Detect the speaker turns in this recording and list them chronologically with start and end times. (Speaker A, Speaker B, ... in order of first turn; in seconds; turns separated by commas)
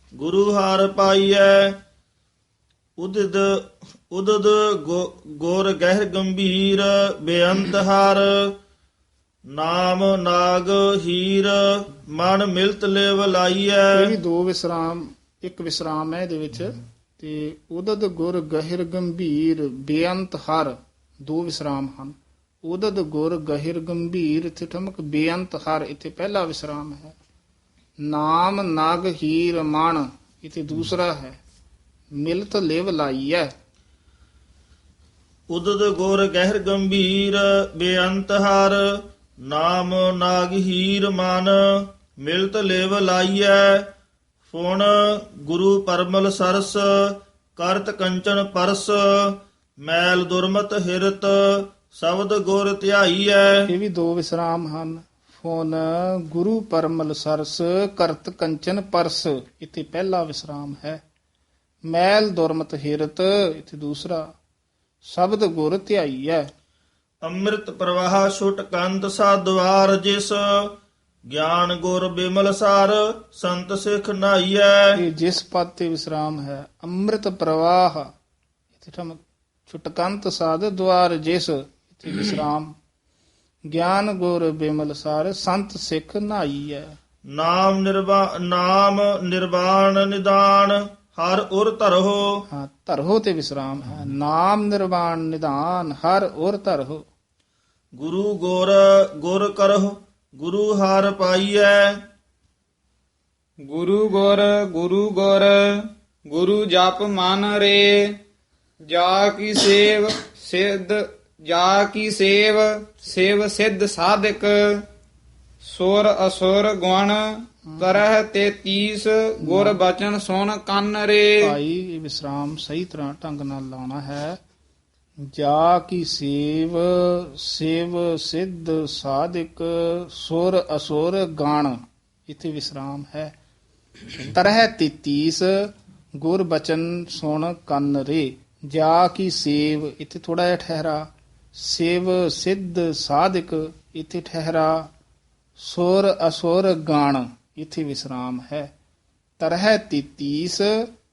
Speaker A: 0.2-1.8, Speaker A: 3.0-8.5, Speaker A: 9.5-14.1, Speaker B: 13.9-27.2, Speaker B: 28.0-31.4, Speaker B: 32.2-33.5, Speaker A: 35.5-38.8, Speaker A: 39.4-43.9, Speaker A: 44.5-53.7, Speaker B: 53.6-61.0, Speaker B: 61.9-64.3, Speaker B: 65.0-66.5, Speaker A: 67.2-70.8, Speaker A: 71.3-75.0, Speaker B: 75.0-78.1, Speaker B: 78.8-82.7, Speaker B: 83.7-86.9, Speaker A: 87.3-92.2, Speaker B: 92.5-97.0, Speaker A: 98.0-101.9, Speaker C: 103.7-108.2, Speaker C: 108.8-114.8, Speaker C: 115.6-121.5, Speaker B: 119.4-119.8, Speaker B: 121.4-124.4, Speaker B: 125.3-133.3, Speaker B: 134.1-144.9, Speaker B: 145.6-148.7, Speaker B: 149.4-150.9